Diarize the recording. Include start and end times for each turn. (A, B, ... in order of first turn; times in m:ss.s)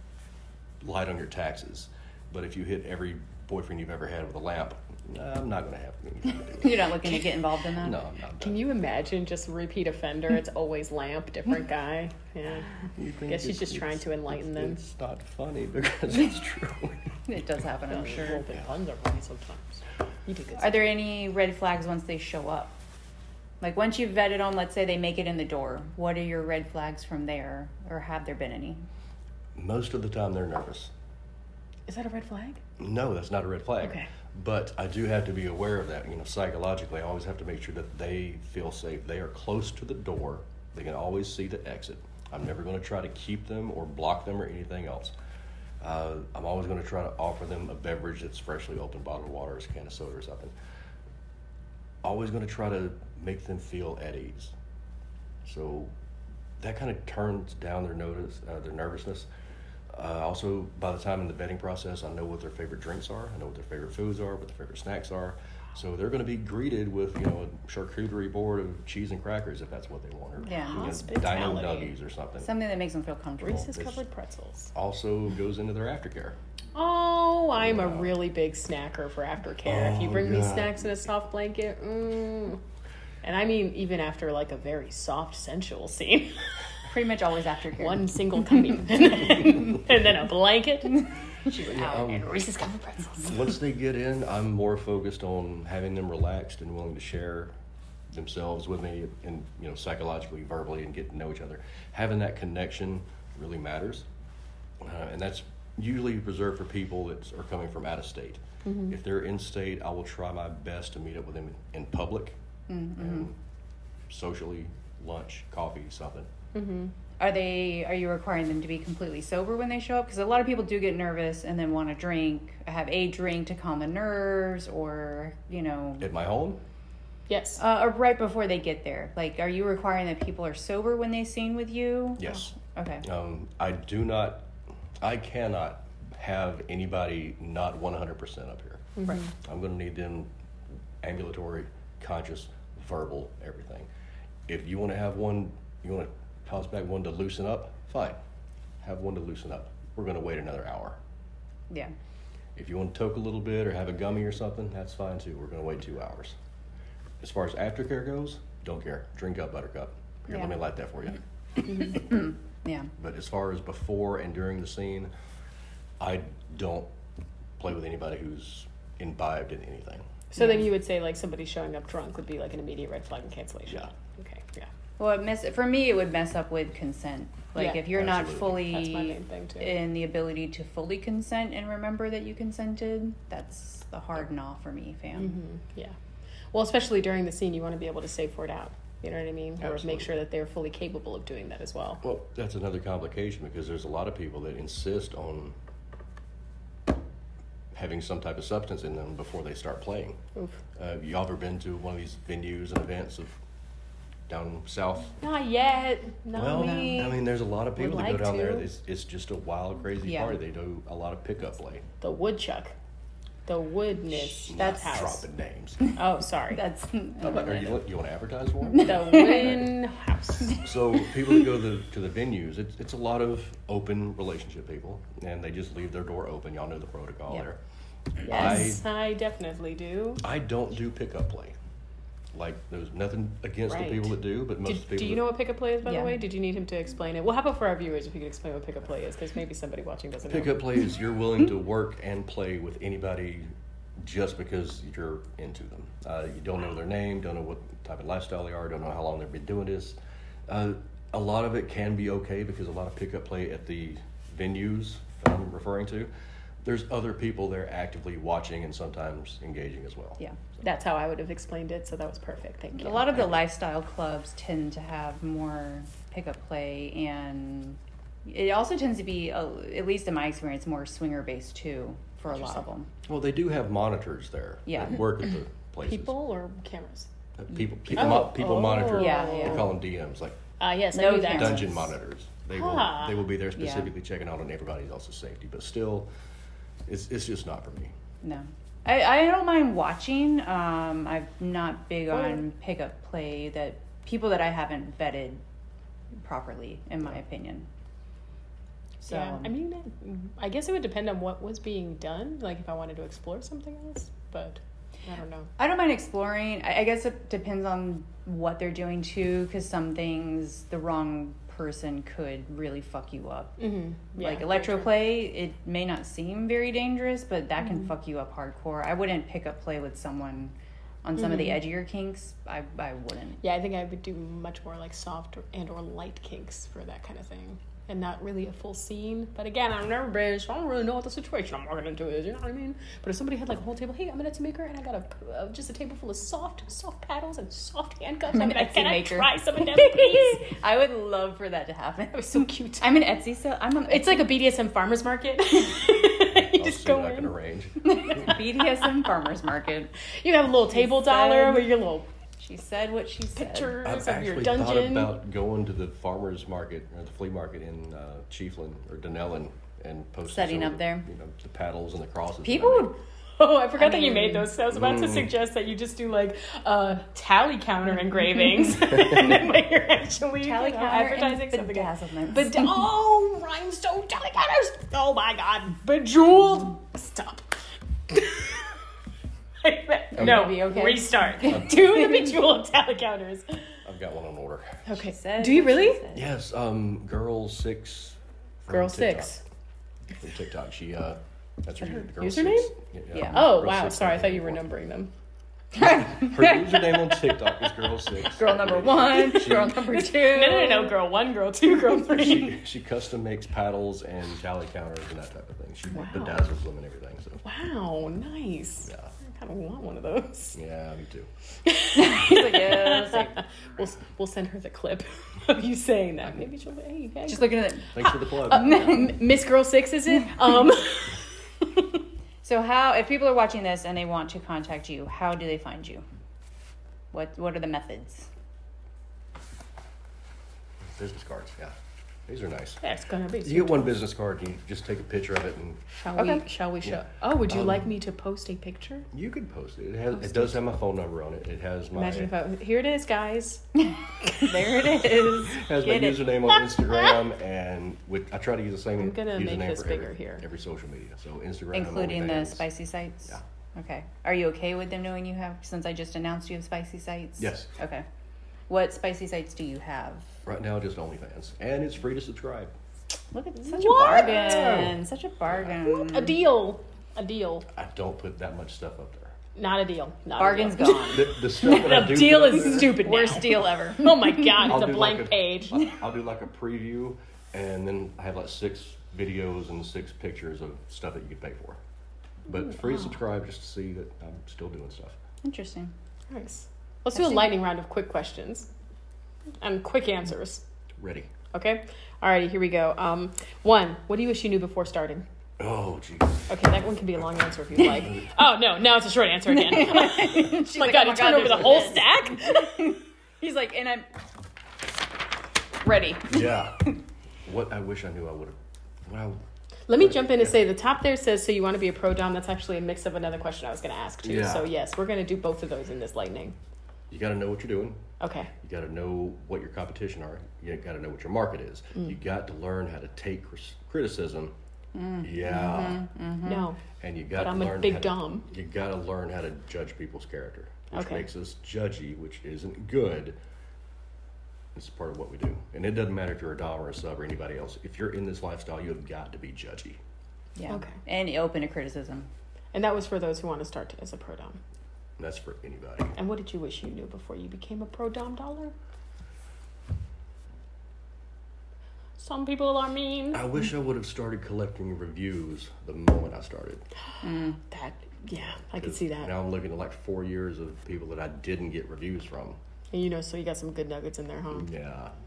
0:00.8-0:07.2 A
0:06.6-0:08.0 B
0:07.8-0:08.7 A
0:08.4-0:12.7 C
0:12.9-0:17.1 A
0:13.3-0:14.8 C
0:17.3-0:18.4 B
0:17.9-0:20.9 C
0:20.6-0:22.8 B
0:23.6-0:28.8 B
0:29.5-0:30.9 A
0:31.9-0:32.6 C
0:32.8-0:45.1 A
0:33.8-0:34.1 C
0:45.8-0:50.5 A
0:52.0-0:54.5 A
0:55.4-0:55.9 A
0:56.6-0:59.3 A
0:59.9-1:12.5 A
1:10.4-1:10.9 B
1:10.5-1:11.9 C
1:12.4-1:13.8 B
1:13.4-1:14.7 C
1:13.7-1:14.0 A
1:14.7-1:16.4 A
1:16.7-1:22.6 C
1:17.6-1:18.1 A
1:19.6-1:20.8 A
1:23.2-1:26.4 C
1:26.9-1:28.0 B
1:27.8-1:31.0 C
1:31.4-1:33.3 B
1:31.6-1:32.2 A
1:33.2-1:37.5 A
1:38.1-1:44.0 A
1:44.8-1:52.4 A
1:48.6-1:49.0 C
1:52.7-1:53.3 B
1:53.0-1:53.3 A
1:54.1-1:56.3 A
1:56.5-1:56.9 C
1:57.2-2:06.1 B
2:06.0-2:06.6 A
2:07.3-2:07.6 C
2:07.6-2:13.0 B
2:12.2-2:14.5 A
2:15.0-2:20.3 A
2:19.0-2:19.3 C
2:21.0-2:23.9 A
2:24.5-2:28.2 A
2:28.8-2:31.0 A
2:32.6-2:36.4 A
2:37.2-2:41.2 A
2:41.7-2:42.9 B
2:43.0-2:45.1 A
2:46.0-2:46.9 A
2:47.6-2:50.0 A
2:50.3-2:54.7 C
2:50.4-2:50.6 B
2:55.0-3:05.4 B
2:57.6-2:57.8 C
2:57.9-2:58.6 A
2:58.6-2:59.7 C
3:05.2-3:05.9 C
3:06.5-3:12.0 C
3:09.6-3:10.2 A
3:12.0-3:15.5 A
3:17.7-3:20.2 A
3:20.8-3:23.4 A
3:24.3-3:25.2 A
3:25.2-3:27.2 C
3:26.3-3:31.8 A
3:26.5-3:27.0 B
3:27.8-3:28.7 C
3:30.0-3:30.4 B
3:32.0-3:32.7 C
3:33.4-3:35.2 C
3:34.5-3:35.8 A
3:36.0-3:36.6 C
3:36.5-3:37.8 B
3:37.2-3:39.7 A
3:38.7-3:39.6 B
3:38.8-3:40.6 C
3:40.6-3:47.6 A
3:48.2-3:48.8 A
3:48.2-3:50.2 C
3:50.2-3:51.5 A
3:52.3-3:55.3 A
3:53.7-4:00.6 C
3:55.8-3:56.2 B
4:00.2-4:16.1 A
4:16.6-4:20.2 A
4:20.6-4:23.2 C
4:22.8-4:32.9 B
4:33.0-4:36.1 A
4:34.7-4:35.0 B
4:35.8-4:37.1 C
4:37.4-4:40.4 A
4:37.9-4:39.8 C
4:38.9-4:39.7 B
4:40.6-4:41.8 C
4:40.9-4:41.8 B
4:41.3-4:46.1 A
4:42.5-4:43.2 C
4:43.6-4:43.9 B
4:46.8-4:47.9 A
4:48.2-4:55.4 B
4:56.2-4:57.7 B
4:59.0-4:59.5 B
4:59.0-5:05.5 C
5:05.6-5:13.5 B
5:13.6-5:14.9 C
5:14.1-5:23.4 B
5:21.2-5:21.6 C
5:23.4-5:40.4 C
5:38.3-5:44.3 B
5:42.1-5:42.9 C
5:43.9-5:47.3 C
5:46.3-5:48.3 A
5:47.8-5:49.9 B
5:50.2-5:52.1 C
5:50.7-5:51.7 B
5:52.4-5:53.8 B
5:53.3-5:55.1 C
5:53.8-6:02.9 A
6:00.3-6:01.0 B
6:02.4-6:03.0 B
6:03.4-6:18.7 C
6:03.8-6:04.5 B
6:04.7-6:05.3 A
6:10.4-6:12.7 B
6:19.6-6:23.7 C
6:20.2-6:21.7 B
6:20.2-6:20.5 A
6:21.4-6:21.8 A
6:23.8-6:24.8 A
6:24.8-6:26.0 C
6:24.9-6:26.3 B
6:26.1-6:29.3 A
6:28.7-6:29.4 C
6:30.2-6:34.6 A
6:31.9-6:32.7 C
6:33.1-6:33.4 B
6:33.3-6:35.1 C
6:35.8-6:37.5 B
6:35.8-6:39.8 A
6:38.2-6:40.9 B
6:39.6-6:42.6 C
6:42.2-6:47.4 A
6:45.9-6:46.4 C
6:47.4-6:50.6 C
6:48.8-6:49.1 A
6:50.5-6:51.3 A
6:51.6-7:01.7 C
6:51.9-6:53.4 B
6:57.3-6:59.2 B
6:57.9-6:58.9 A
7:02.4-7:06.0 B
7:07.1-7:08.3 B
7:10.9-7:11.7 A
7:12.3-7:12.8 A
7:12.8-7:14.0 C
7:13.4-7:15.8 A
7:15.9-7:19.1 C
7:16.1-7:16.4 B
7:16.8-7:17.9 A
7:19.1-7:22.3 A
7:21.9-7:23.6 C
7:24.4-7:26.3 B
7:25.4-7:32.7 A
7:29.0-7:30.4 C
7:31.7-7:38.0 B
7:37.4-7:37.7 A
7:38.7-7:40.3 B
7:40.4-7:42.7 A
7:43.3-7:46.4 B
7:43.7-7:45.0 C
7:44.3-7:44.9 A
7:45.7-7:47.7 C
7:47.7-7:49.4 A
7:49.6-7:55.8 C
7:50.4-7:51.8 B
7:50.9-7:53.1 A
7:52.6-7:54.7 B
7:54.6-8:01.8 A
8:02.5-8:05.2 A
8:05.4-8:05.9 B
8:06.3-8:08.7 C
8:07.1-8:07.5 B
8:09.6-8:10.6 C
8:11.0-8:11.3 A
8:11.5-8:15.2 C
8:15.6-8:16.5 A
8:16.5-8:22.9 C
8:17.9-8:18.3 A
8:19.5-8:24.1 B
8:25.8-8:26.6 B
8:26.3-8:26.9 A
8:27.4-8:29.4 A
8:29.9-8:36.6 C
8:30.0-8:30.6 A
8:34.2-8:34.7 A
8:37.1-8:38.0 A
8:38.2-8:38.5 C
8:38.6-8:44.5 A
8:44.9-8:46.7 B
8:45.2-8:46.1 A
8:46.4-8:46.8 C
8:47.0-8:53.4 A
8:47.4-8:48.5 C
8:50.9-8:51.2 C
8:54.7-9:00.0 A
9:00.6-9:02.3 B
9:00.7-9:01.0 C
9:02.7-9:04.6 C
9:05.2-9:06.2 A
9:06.2-9:08.7 C
9:12.2-9:13.5 C
9:13.3-9:16.8 A
9:17.2-9:17.6 B
9:17.6-9:19.3 C
9:18.7-9:22.6 A
9:22.9-9:24.7 C
9:24.5-9:25.1 A